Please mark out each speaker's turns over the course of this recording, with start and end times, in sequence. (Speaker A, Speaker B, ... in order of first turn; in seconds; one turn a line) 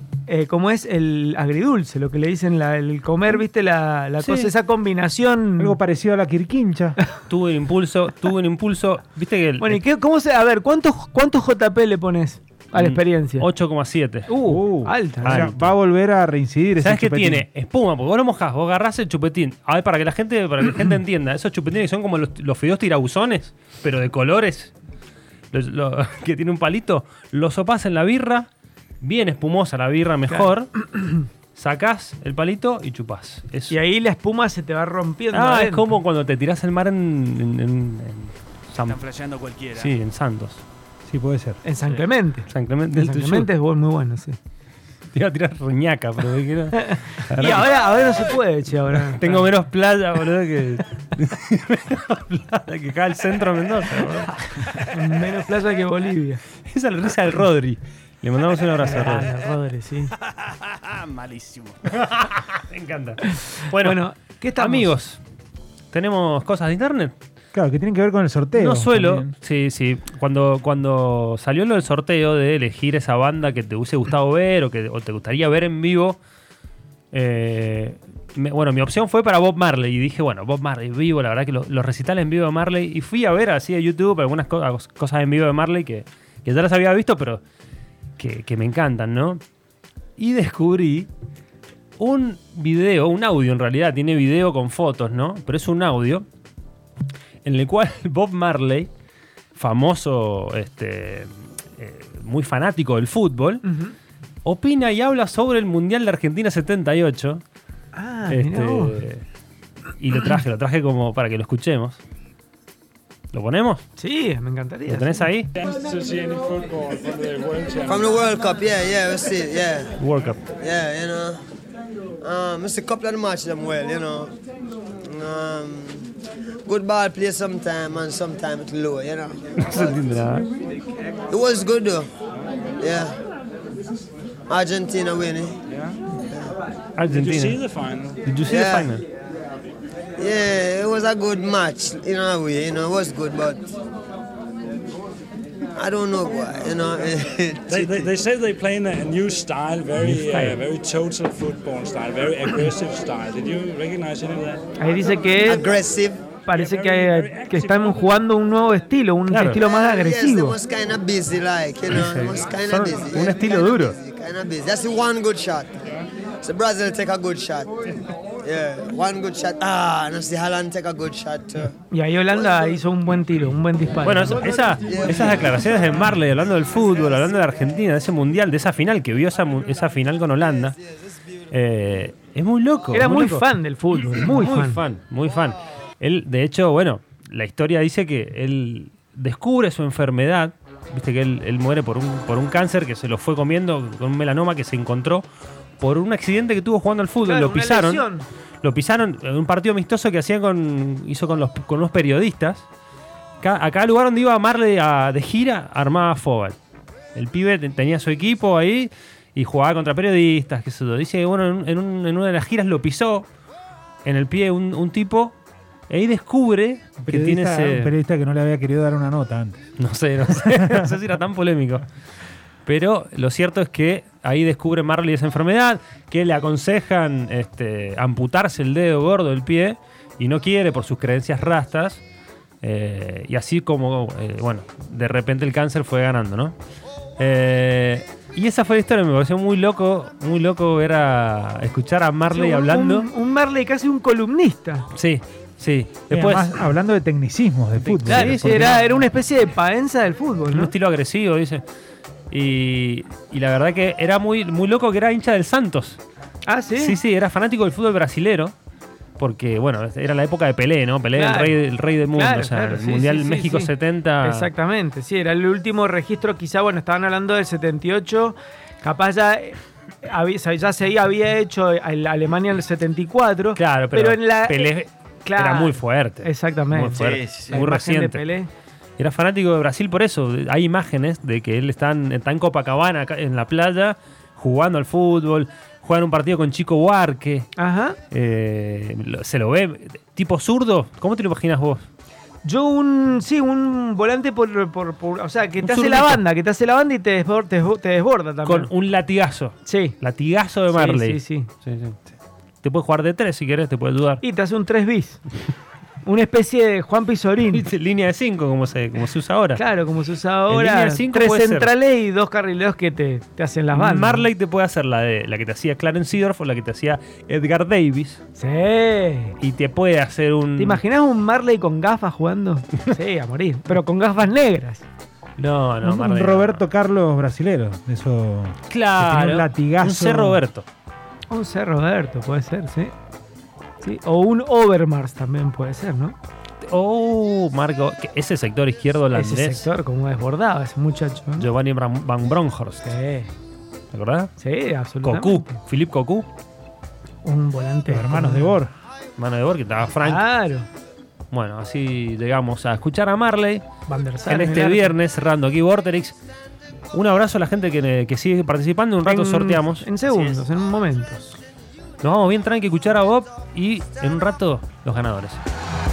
Speaker A: 0.3-5.8
Speaker B: 4.2-4.5
Speaker C: 5.6-7.0
Speaker B: 7.2-9.8
Speaker A: 9.6-13.5
Speaker B: 12.8-14.4
Speaker A: 14.3-15.4
Speaker C: 14.4-17.4
Speaker B: 15.2-15.7
Speaker B: 16.8-24.7
Speaker B: 25.5-28.5
Speaker B: 29.0-30.8
Speaker B: 31.5-33.8
Speaker A: 33.7-35.9
Speaker B: 35.3-39.0
Speaker D: 38.9-39.9
Speaker B: 39.7-40.6
Speaker C: 41.1-41.6
Speaker A: 41.6-44.4
Speaker B: 42.5-43.5
Speaker B: 45.1-47.7
Speaker A: 46.8-49.5
Speaker B: 49.1-54.9
Speaker A: 54.8-56.4
Speaker B: 56.6-59.3
Speaker A: 58.8-60.1
Speaker E: 60.7-61.5
Speaker D: 60.9-61.7
Speaker B: 61.9-64.0
Speaker A: 63.4-64.9
Speaker B: 64.6-65.2
Speaker B: 65.9-67.1
Speaker C: 67.5-69.3
Speaker B: 68.5-76.2
Speaker B: 77.1-87.4
Speaker B: 88.2-89.4
Speaker B: 90.2-91.1
Speaker B: 92.0-96.2
Speaker B: 97.4-98.9
Speaker B: 99.5-103.6
Speaker A: 103.7-103.9
Speaker B: 104.4-107.4
Speaker A: 107.9-109.0
Speaker B: 108.3-109.2
Speaker B: 110.0-112.0
Speaker B: 113.3-113.8
Speaker A: 114.0-115.2
Speaker B: 114.8-115.5
Speaker E: 115.5-118.1
Speaker F: 117.8-119.9
Speaker B: 120.0-120.4
Speaker F: 120.5-121.4
Speaker F: 122.2-124.3
Speaker F: 125.0-126.1
Speaker F: 126.6-129.4
Speaker B: 129.6-130.5
Speaker F: 131.3-132.1
Speaker F: 132.8-133.2
Speaker F: 134.5-135.6
Speaker E: 135.7-136.0
Speaker B: 136.9-137.6
Speaker E: 137.1-138.2
Speaker B: 138.2-139.0
Speaker F: 138.5-138.9
Speaker F: 140.2-143.7
Speaker F: 145.7-148.1
Speaker E: 147.7-154.6
Speaker B: 150.0-150.6
Speaker A: 154.8-155.7
Speaker F: 155.4-156.2
Speaker A: 156.4-160.6
Speaker E: 156.5-157.9
Speaker B: 159.3-159.6
Speaker F: 159.5-167.8
Speaker B: 161.9-163.9
Speaker F: 168.4-171.7
Speaker A: 171.9-174.9
Speaker B: 174.0-180.8
Speaker F: 174.9-175.9
Speaker B: 181.5-183.4
Speaker A: 182.9-184.8
Speaker B: 184.2-195.3
Speaker B: 195.8-198.0
Speaker A: 197.2-198.3
Speaker B: 198.6-202.7
Speaker B: 203.4-206.6
Speaker B: 207.1-213.3
Speaker B: 214.0-215.3
Speaker B: 215.9-217.9
Speaker C: 217.0-219.7
Speaker B: 219.8-221.8
Speaker C: 220.3-220.9
Speaker B: 222.6-232.0
Speaker B: 232.6-236.6
Speaker B: 237.2-243.1
Speaker A: 242.3-244.9
Speaker B: 244.9-246.5
Speaker C: 246.1-248.8
Speaker B: 247.8-248.8
Speaker A: 248.1-250.7
Speaker B: 250.5-251.6
Speaker B: 252.3-256.0
Speaker A: 256.4-257.0
Speaker B: 256.8-258.5
Speaker B: 259.2-264.5
Speaker A: 261.1-278.5
Speaker B: 273.6-278.2
Speaker D: 276.9-277.6
Speaker B: 279.0-287.5
Speaker A: 287.6-288.0
Speaker B: 288.1-291.8
Speaker A: 292.4-298.7
Speaker B: 295.6-296.2
Speaker B: 298.4-302.0
Speaker A: 299.6-300.0
Speaker A: 300.7-301.5
Speaker B: 302.6-304.2
Speaker A: 304.2-305.2
Speaker A: 306.0-307.7
Speaker B: 307.5-309.6
Speaker A: 309.5-314.3
Speaker B: 310.5-311.7
Speaker B: 313.7-318.2
Speaker A: 318.4-319.3
Speaker B: 319.4-320.8
Speaker A: 320.6-324.8
Speaker B: 325.4-326.6
Speaker C: 325.8-330.4
Speaker B: 328.7-330.6
Speaker A: 331.3-332.9
Speaker A: 333.8-336.2
Speaker B: 336.6-339.6
Speaker A: 339.1-341.5
Speaker B: 341.4-342.9
Speaker A: 342.8-343.3
Speaker B: 343.9-344.3
Speaker A: 344.4-345.6
Speaker B: 345.0-346.3
Speaker A: 347.2-348.6
Speaker C: 347.9-348.7
Speaker B: 349.2-350.2
Speaker A: 350.0-350.7
Speaker B: 351.3-353.6
Speaker A: 353.9-354.9
Speaker B: 354.2-356.2
Speaker B: 356.9-359.9
Speaker A: 359.1-361.4
Speaker B: 362.0-365.4